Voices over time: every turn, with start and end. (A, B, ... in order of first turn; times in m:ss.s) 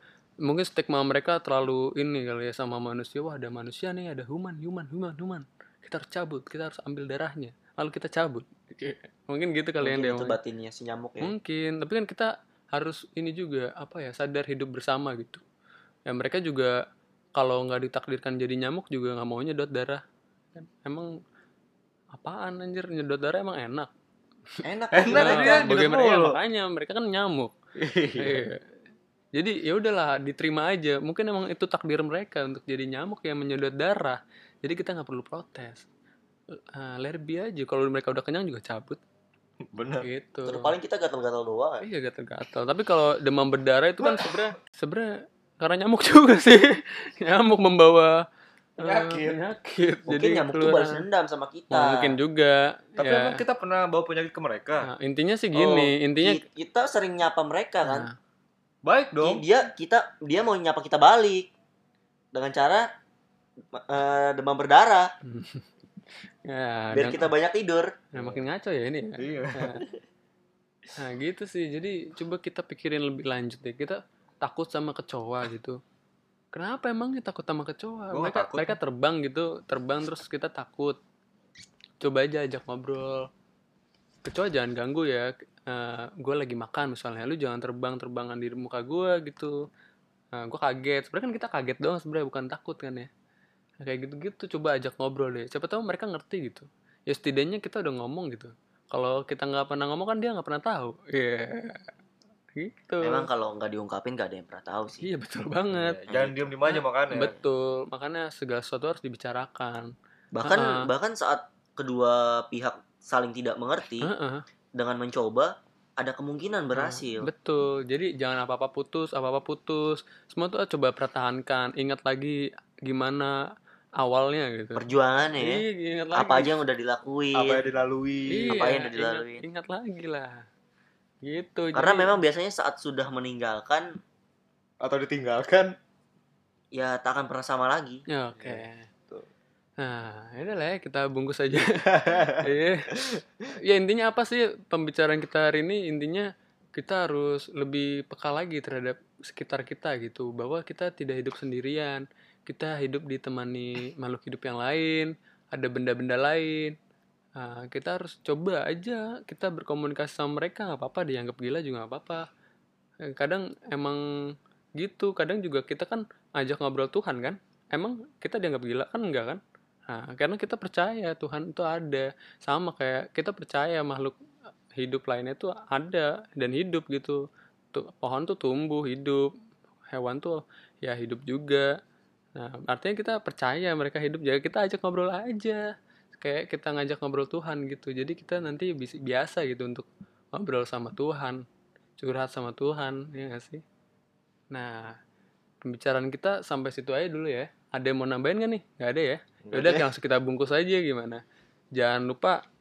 0:00.4-0:10.4 A
0:09.8-0:11.3 B
0:11.2-0:15.4 A
0:16.1-0:16.8 A
0:17.3-0:20.0 A
0:20.5-0:21.1 A
0:22.1-0:23.9 A
0:24.6-0:25.7 B
0:24.9-0:26.4 C
0:25.1-0:27.5 A
0:27.8-0:28.4 C
0:28.2-0:28.6 A
0:29.3-0:35.8 A
0:36.7-0:39.0 A
0:39.7-0:40.1 C
0:40.0-0:40.7 A
0:40.4-0:41.8 B
0:41.8-0:48.2 A
0:44.0-0:44.4 C
0:48.8-0:49.4 C
0:48.8-0:51.0 A
0:50.1-0:52.2 B
0:51.7-0:53.4 A
0:53.0-0:54.9 C
0:54.8-0:56.4 A
0:55.5-0:55.9 C
0:56.2-0:58.1 B
0:57.8-0:58.2 A
0:58.8-0:59.4 C
0:59.2-1:01.5 B
1:02.3-1:02.9 B
1:03.7-1:05.1 B
1:05.2-1:05.6 A
1:06.4-1:07.3 A
1:06.9-1:08.0 B
1:08.1-1:09.8 A
1:08.1-1:08.4 C
1:09.2-1:09.8 C
1:11.0-1:15.8 A
1:16.5-1:21.0 A
1:18.1-1:18.8 C
1:22.0-1:23.3 A
1:24.2-1:29.6 A
1:30.3-1:33.1 A
1:33.8-1:41.8 A
1:42.6-1:43.2 A
1:43.0-1:45.1 B
1:45.0-1:46.0 A
1:45.7-1:47.4 C
1:46.1-1:46.4 B
1:46.7-1:49.9 A
1:50.3-1:54.1 B
1:50.4-1:50.8 A
1:54.0-1:54.4 A
1:54.7-1:57.3 B
1:56.7-2:03.3 A
2:04.0-2:04.8 A
2:04.8-2:05.6 B
2:05.4-2:06.5 A
2:06.2-2:07.6 B
2:07.3-2:08.6 C
2:08.3-2:10.4 A
2:08.5-2:09.4 B
2:11.2-2:12.1 A
2:11.7-2:13.8 B
2:14.8-2:15.8 C
2:16.7-2:18.0 B
2:18.1-2:18.9 A
2:18.4-2:19.2 C
2:19.8-2:36.8 A
2:37.4-2:42.2 A
2:43.1-2:44.0 A
2:44.8-2:54.2 A
2:54.8-2:57.2 A
2:57.7-2:59.3 A
2:59.9-3:01.7 A
3:02.4-3:05.6 A
3:06.2-3:11.4 A
3:12.0-3:13.6 A
3:14.5-3:14.9 A
3:15.6-3:21.2 A
3:19.4-3:19.9 C
3:21.8-3:22.4 A